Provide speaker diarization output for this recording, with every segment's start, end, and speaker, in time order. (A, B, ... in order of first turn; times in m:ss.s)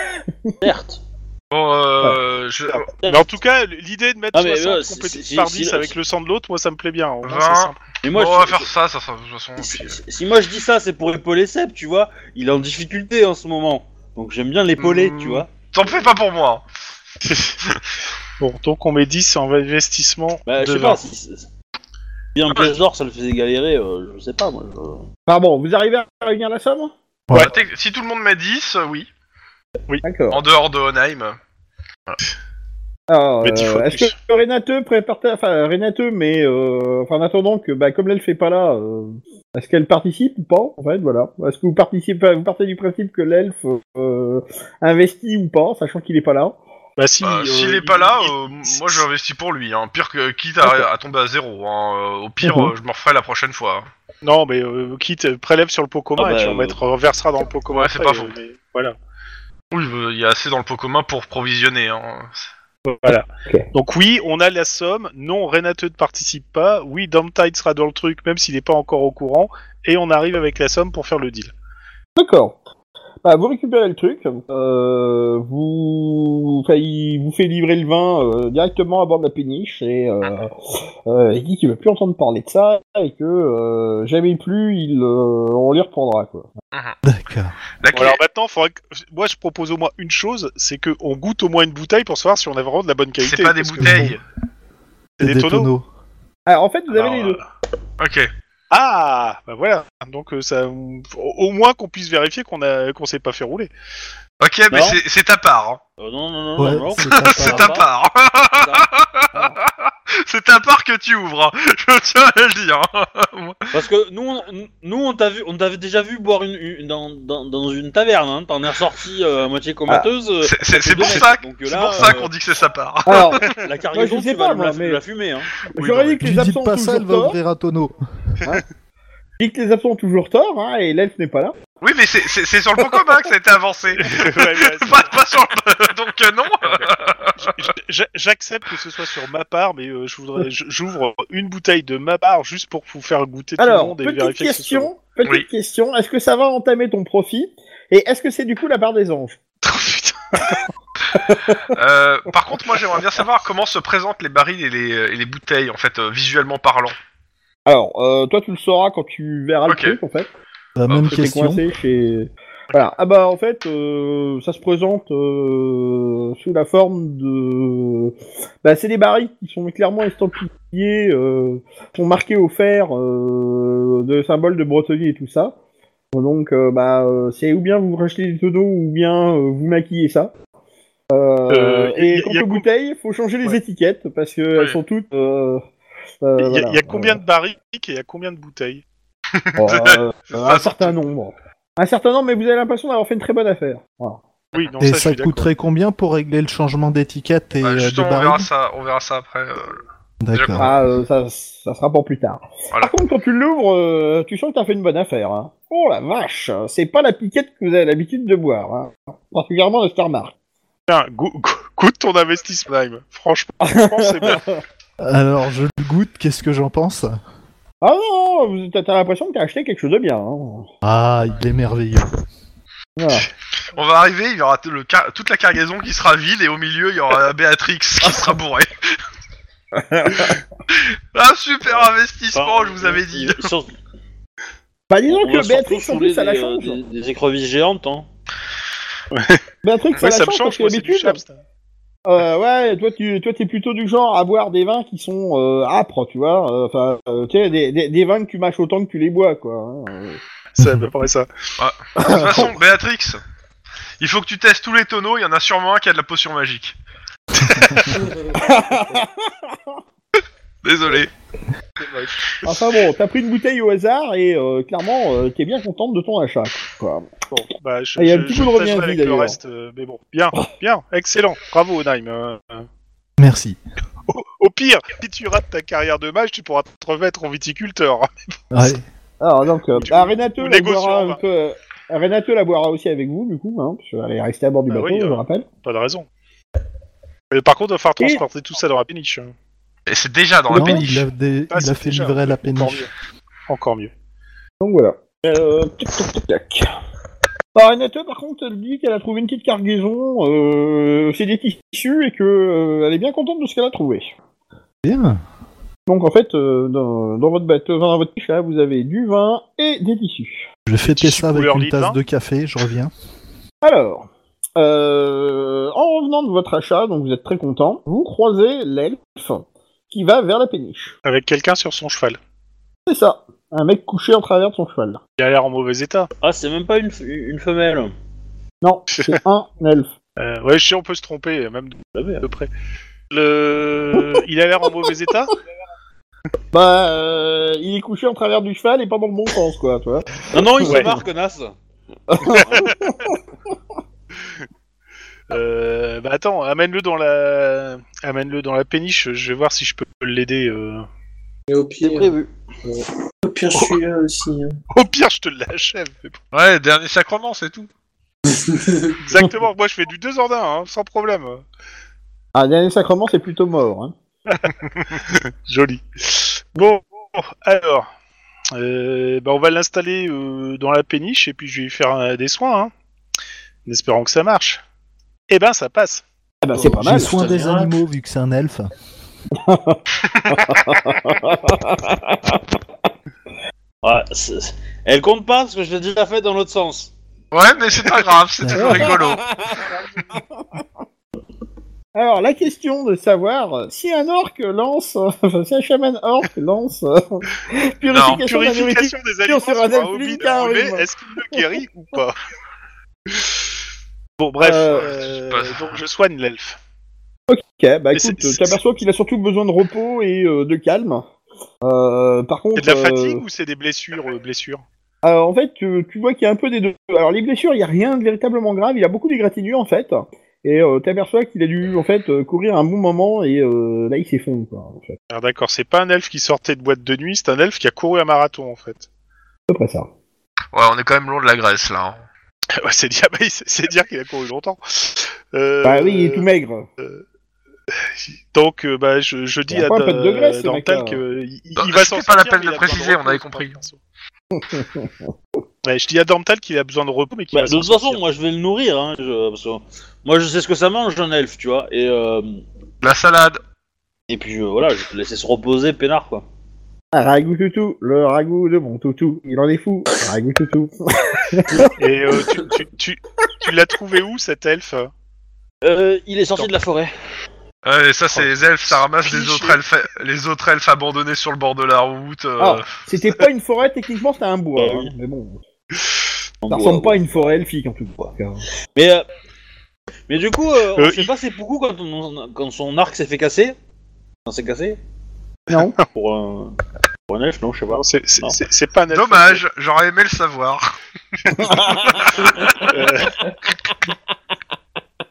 0:00.3-0:00.5 A
0:00.6-0:01.0 B
0:01.5-0:02.8 C
0:02.6-0:07.8 D
0:03.0-0:03.3 B
0:04.3-0:05.9 B
0:07.2-0:10.0 C
0:08.0-0:08.7 B
0:09.6-0:15.5 B
0:14.8-0:16.6 C
0:17.3-0:17.5 D
0:18.4-0:21.0 D
0:20.5-0:21.5 B
0:22.4-0:25.0 B
0:25.3-0:26.9 A
0:27.3-0:29.1 C
0:30.0-0:30.4 A
0:30.3-0:31.4 C
0:33.1-0:46.6 A
0:33.4-0:34.1 D
0:47.0-0:49.0 D
0:47.2-0:53.9 C
0:52.4-0:52.7 A
0:54.2-0:59.0 D
0:56.2-0:56.8 B
0:57.7-0:58.3 C
0:59.7-1:02.4 C
1:02.8-1:11.5 D
1:12.2-1:12.6 A
1:13.2-1:26.5 A
1:27.0-1:27.6 E
1:27.8-1:28.2 C
1:27.9-1:34.1 D
1:33.2-1:34.2 C
1:33.8-1:34.2 E
1:35.2-1:35.7 D
1:35.2-1:35.9 E
1:36.5-1:37.4 A
1:36.9-1:37.4 D
1:38.0-1:38.3 C
1:38.7-1:43.7 D
1:44.4-1:45.8 C
1:44.7-1:45.0 B
1:46.0-1:47.9 B
1:46.6-1:47.8 E
1:47.0-1:53.7 C
1:48.6-1:48.9 B
1:53.7-2:02.3 B
2:00.4-2:03.6 C
2:03.1-2:05.0 A
2:03.5-2:05.5 B
2:05.8-2:07.4 A
2:05.8-2:06.2 C
2:06.2-2:08.0 E
2:09.4-2:11.6 A
2:11.8-2:17.7 C
2:14.0-2:15.2 D
2:16.6-2:24.9 D
2:23.6-2:29.4 A
2:29.7-2:30.2 C
2:31.2-2:31.7 A
2:31.8-2:37.0 C
2:37.7-2:40.3 A
2:39.7-2:40.0 C
2:40.8-2:41.6 E
2:40.9-2:41.2 C
2:41.0-2:55.6 A
2:56.1-3:00.3 A
3:01.1-3:05.6 A
3:01.5-3:02.7 D
3:06.2-3:07.2 A
3:06.4-3:08.8 D
3:09.3-3:11.0 C
3:09.6-3:14.2 A
3:14.6-3:15.5 D
3:14.8-3:18.5 E
3:17.6-3:19.8 C
3:20.2-3:20.7 E
3:20.3-3:20.7 C
3:20.6-3:30.3 A
3:30.9-3:34.4 D
3:33.6-3:34.6 A
3:35.0-3:37.2 E
3:37.8-3:40.7 A
3:40.8-3:42.1 E
3:43.0-3:43.3 A
3:43.8-3:48.9 C
3:49.8-3:50.4 A
3:50.7-3:53.5 C
3:51.7-3:53.7 B
3:54.9-3:56.8 A
3:55.1-3:58.1 B
3:59.1-3:59.4 D
3:59.6-4:01.2 A
4:00.0-4:01.4 D
4:02.1-4:10.2 A
4:10.6-4:11.3 D
4:11.6-4:13.2 C
4:12.0-4:12.6 A
4:14.0-4:16.8 C
4:17.4-4:17.9 C
4:17.4-4:17.9 E
4:18.0-4:18.6 F
4:18.3-4:19.6 A
4:20.6-4:21.1 C
4:21.8-4:22.2 D
4:22.4-4:27.2 A
4:27.3-4:32.7 D
4:28.0-4:29.4 A
4:33.2-4:33.6 E
4:34.1-4:38.1 D
4:38.5-4:38.8 E
4:39.2-4:45.5 A
4:39.7-4:41.2 D
4:44.7-4:46.1 D
4:47.3-4:49.3 D
4:48.0-4:48.2 A
4:49.9-4:51.1 C
4:50.5-4:50.9 A
4:50.5-4:52.9 E
4:51.5-4:52.9 D
4:53.5-4:53.9 D
4:54.6-4:56.7 A
4:57.6-5:04.1 A
5:04.8-5:05.2 E
5:05.9-5:10.5 A
5:10.7-5:12.9 E
5:10.8-5:12.0 D
5:13.6-5:20.9 A
5:21.0-5:22.2 D
5:22.9-5:25.0 A
5:25.2-5:26.1 D
5:26.2-5:27.9 B
5:28.6-5:29.9 A
5:28.9-5:29.2 D
5:30.2-5:32.5 D
5:32.0-5:32.2 B
5:33.1-5:35.4 D
5:33.9-5:34.2 A
5:36.5-5:41.0 A
5:40.3-5:41.6 B
5:40.7-5:41.0 D
5:42.1-5:43.2 A
5:42.3-5:42.6 B
5:42.3-5:43.1 D
5:45.3-5:50.9 D
5:51.5-5:54.6 F
5:51.8-5:52.3 B
5:54.7-5:56.2 D
5:56.3-5:57.7 C
5:58.3-5:59.0 F
5:59.0-6:01.4 D
6:02.4-6:04.0 A
6:04.3-6:07.9 D
6:08.5-6:12.7 D
6:13.7-6:14.6 D
6:15.3-6:16.0 D
6:16.4-6:17.2 A
6:16.6-6:17.8 F
6:16.6-6:18.7 E
6:19.4-6:22.6 A
6:20.0-6:21.2 C
6:23.8-6:26.9 B
6:27.3-6:29.2 C
6:28.4-6:29.0 E
6:28.5-6:30.6 A
6:32.0-6:41.4 A
6:37.9-6:38.2 C
6:38.0-6:42.2 D
6:44.2-6:46.6 D
6:44.4-6:44.9 A
6:44.7-6:45.8 C
6:47.3-6:51.0 A
6:47.9-6:48.6 D
6:51.6-6:53.2 A
6:52.6-6:54.6 D
6:55.0-7:05.0 A
7:05.1-7:08.9 D
7:09.5-7:09.9 A
7:10.5-7:12.1 C
7:12.6-7:16.3 D
7:15.6-7:16.7 A
7:17.7-7:23.8 D
7:19.5-7:21.0 A
7:21.6-7:23.6 C
7:24.3-7:25.1 A
7:25.6-7:28.0 D
7:27.3-7:32.4 B
7:32.8-7:33.4 C
7:34.1-7:36.3 B
7:36.9-7:41.7 A
7:41.8-7:44.9 D
7:45.6-7:46.9 B
7:47.6-7:52.7 C
7:48.1-7:49.6 D
7:52.4-7:55.4 A
7:54.6-7:54.9 B
7:56.4-7:57.3 B
7:56.5-7:58.4 A
7:58.8-7:59.1 B
8:00.1-8:03.6 B
8:00.8-8:01.1 D
8:04.3-8:04.8 B
8:05.5-8:05.8 A
8:05.9-8:06.6 B
8:07.1-8:08.4 B
8:07.7-8:09.4 D
8:08.9-8:10.8 C
8:11.3-8:12.8 C
8:11.4-8:12.0 A
8:12.7-8:13.2 D